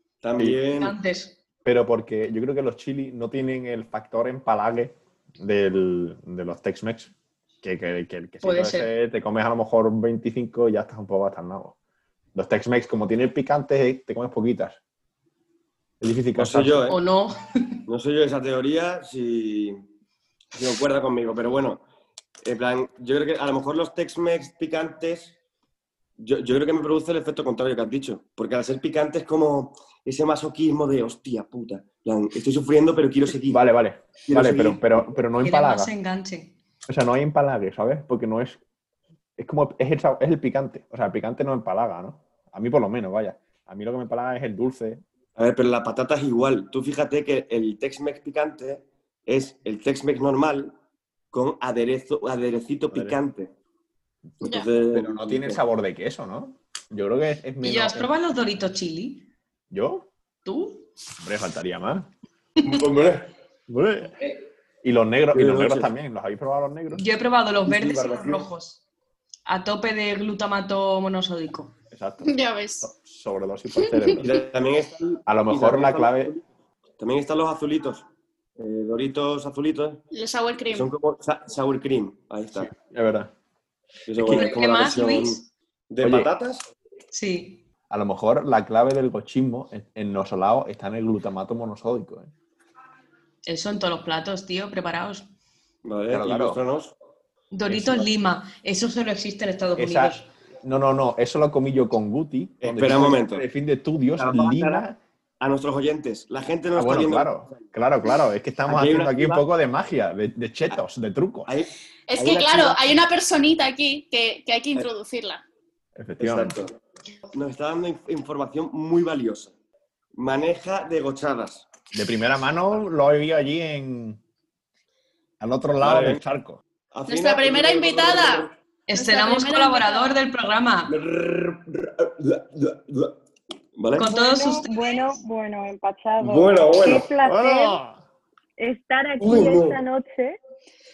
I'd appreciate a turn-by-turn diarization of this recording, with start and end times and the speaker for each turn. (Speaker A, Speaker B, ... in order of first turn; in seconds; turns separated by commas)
Speaker A: 0.2-0.9, Speaker B: 0.7-1.3, Speaker C: 1.6-11.7, Speaker B: 8.4-8.9, Speaker C: 12.3-14.8, Speaker C: 16.0-16.9, Speaker A: 16.3-17.0, Speaker B: 16.9-17.8, Speaker A: 17.9-19.8, Speaker A: 20.5-21.8, Speaker A: 22.4-25.3, Speaker A: 26.2-33.6, Speaker C: 33.5-35.9, Speaker A: 34.2-34.8, Speaker B: 35.4-36.5, Speaker C: 36.9-38.6, Speaker C: 39.4-45.0, Speaker A: 45.4-50.7, Speaker A: 51.3-53.5, Speaker C: 52.9-53.2, Speaker A: 54.4-55.6, Speaker D: 54.4-54.7, Speaker C: 54.8-58.1, Speaker B: 57.6-59.3, Speaker C: 59.7-60.1, Speaker B: 60.4-60.9, Speaker C: 61.2-62.1, Speaker A: 62.6-63.3, Speaker C: 63.7-64.1, Speaker C: 64.8-67.0, Speaker A: 65.3-65.9, Speaker B: 66.9-68.8, Speaker A: 67.7-68.5, Speaker B: 69.5-71.7, Speaker C: 71.9-74.3, Speaker D: 72.2-72.9, Speaker D: 73.9-74.2, Speaker A: 74.2-76.4, Speaker C: 75.2-76.3, Speaker A: 77.0-78.0, Speaker A: 78.6-80.0, Speaker D: 80.1-80.9, Speaker A: 80.7-82.7, Speaker C: 82.5-83.3, Speaker A: 84.1-86.7, Speaker C: 84.2-84.5, Speaker B: 84.3-85.5, Speaker C: 86.0-86.3, Speaker B: 87.1-87.6, Speaker C: 87.9-92.3, Speaker B: 93.5-95.2, Speaker A: 95.8-96.9, Speaker C: 96.1-96.6, Speaker B: 97.5-100.3, Speaker C: 97.7-98.1, Speaker C: 99.8-105.0, Speaker A: 102.6-103.4, Speaker A: 104.2-104.8, Speaker A: 105.4-107.6, Speaker C: 106.7-111.5, Speaker A: 108.7-109.5, Speaker A: 111.5-112.9, Speaker D: 112.1-115.4, Speaker C: 116.0-116.6, Speaker A: 116.2-116.8, Speaker A: 117.3-119.5, Speaker A: 120.2-121.7, Speaker C: 121.9-124.2, Speaker C: 125.4-126.6, Speaker A: 125.8-126.2, Speaker A: 126.9-128.5, Speaker D: 127.1-130.2, Speaker B: 128.9-130.9, Speaker A: 130.9-133.2, Speaker A: 133.8-134.1, Speaker B: 134.0-135.2, Speaker E: 134.0-137.8, Speaker A: 136.2-137.1, Speaker C: 137.2-138.0, Speaker E: 138.6-140.4, Speaker A: 139.2-139.8